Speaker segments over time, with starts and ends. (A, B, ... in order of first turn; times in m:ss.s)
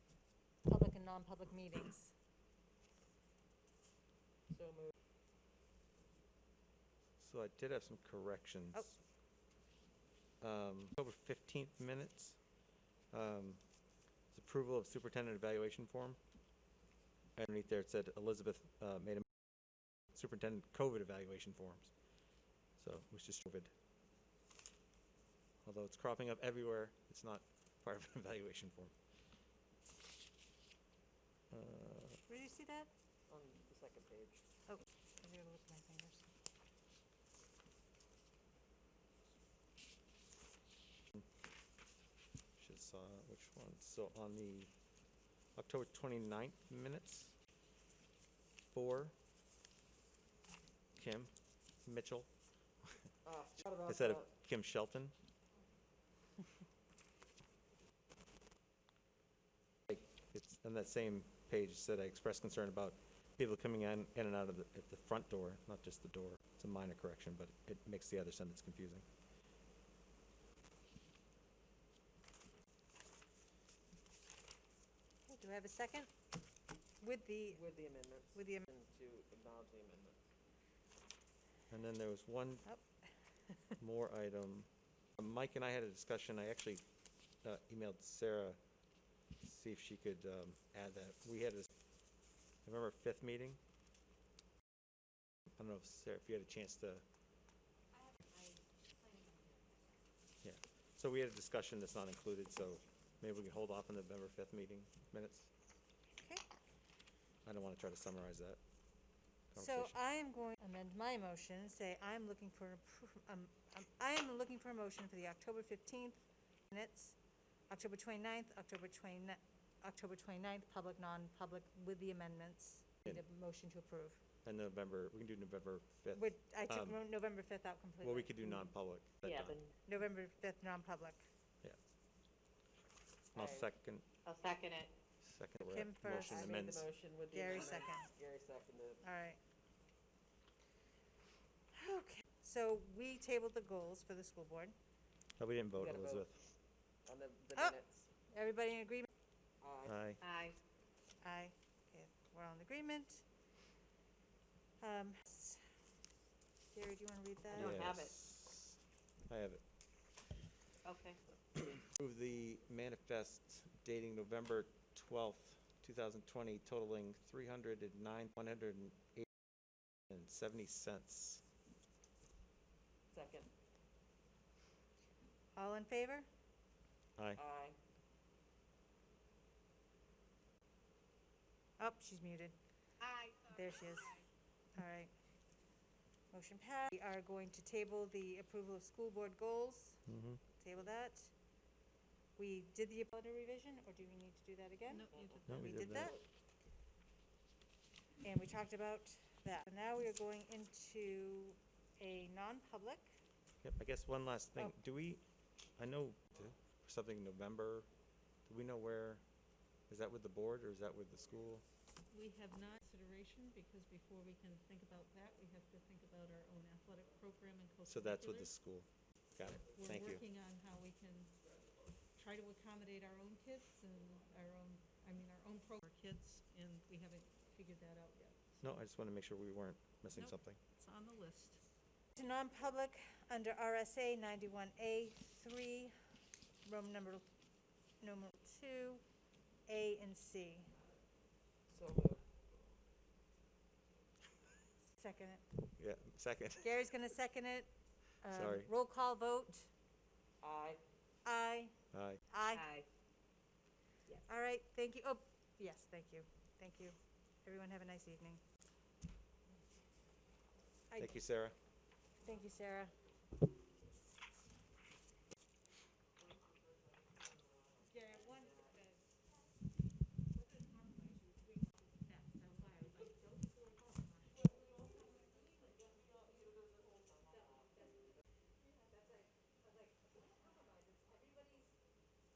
0:00.7-0:02.1 A
0:04.5-0:04.9 B
0:07.2-0:09.0 C
0:10.4-0:12.4 C
0:13.1-0:13.6 C
0:14.3-0:16.2 C
0:17.4-0:19.2 C
0:20.1-0:21.9 C
0:22.8-0:23.7 C
0:25.6-0:28.9 C
0:31.5-0:32.2 C
0:32.3-0:32.9 A
0:33.3-0:34.4 B
0:34.7-0:36.3 A
0:42.6-0:44.7 C
0:45.6-0:47.3 C
0:48.7-0:49.1 C
0:51.0-0:51.3 C
0:51.8-0:52.3 C
0:53.2-0:54.3 B
0:53.9-0:55.1 C
0:59.9-1:09.0 C
1:15.3-1:16.1 A
1:17.0-1:17.6 A
1:17.5-1:20.2 B
1:18.3-1:18.6 A
1:21.7-1:22.6 C
1:23.5-1:23.8 A
1:23.8-1:24.7 C
1:25.2-1:26.8 C
1:27.4-1:28.6 C
1:29.4-1:31.7 C
1:32.6-1:33.6 C
1:35.6-1:37.0 C
1:38.3-1:39.7 D
1:40.4-1:45.5 C
1:47.4-1:48.6 C
1:49.5-1:49.9 C
1:49.6-1:57.2 A
1:57.7-2:04.2 A
2:04.4-2:07.0 C
2:06.1-2:08.7 A
2:08.0-2:09.6 C
2:09.2-2:09.7 E
2:09.8-2:11.2 A
2:13.3-2:14.0 C
2:13.3-2:13.7 B
2:14.2-2:14.9 E
2:15.2-2:16.9 C
2:15.6-2:16.8 A
2:16.2-2:19.0 B
2:17.3-2:18.1 A
2:19.0-2:19.4 A
2:21.7-2:24.7 A
2:25.4-2:26.5 C
2:25.7-2:26.2 B
2:27.1-2:28.1 B
2:28.3-2:29.1 A
2:29.6-2:30.0 B
2:29.8-2:30.2 C
2:30.2-2:30.6 E
2:31.2-2:33.2 A
2:34.8-2:35.6 A
2:36.7-2:37.9 A
2:37.5-2:38.1 E
2:37.5-2:39.6 C
2:40.8-2:41.2 E
2:41.9-2:49.3 C
2:50.1-2:51.4 C
2:53.1-2:53.5 B
2:55.6-2:56.3 A
2:57.2-2:57.4 C
2:57.4-2:57.8 B
3:01.8-3:04.2 A
3:04.8-3:05.1 A
3:06.3-3:11.3 A
3:10.1-3:10.4 C
3:12.4-3:16.2 A
3:14.9-3:15.7 D
3:15.2-3:16.2 B
3:15.5-3:16.2 C
3:18.2-3:23.1 A
3:23.6-3:25.2 C
3:25.8-3:27.9 C
3:28.4-3:29.2 C
3:29.9-3:31.6 C
3:32.1-3:38.5 D
3:37.8-3:40.2 C
3:39.7-3:41.4 D
3:42.1-3:48.6 D
3:48.6-3:50.6 C
3:50.1-3:51.6 D
3:52.2-3:55.9 A
3:56.6-3:57.2 A
3:58.0-3:59.0 A
3:59.7-4:00.7 A
4:01.7-4:02.3 B
4:05.0-4:05.4 A
4:05.8-4:06.8 C
4:06.6-4:07.7 A
4:08.2-4:09.7 A
4:08.2-4:08.7 C
4:10.4-4:10.8 B
4:11.2-4:11.7 A
4:11.9-4:12.2 C
4:12.3-4:12.6 A
4:12.5-4:12.9 E
4:14.1-4:18.4 A
4:20.9-4:21.2 A
4:21.0-4:21.6 C
4:22.2-4:22.9 A
4:26.2-4:28.8 B
4:27.9-4:29.0 A
4:30.6-4:34.4 A
4:36.2-4:38.0 B
4:38.8-4:41.7 A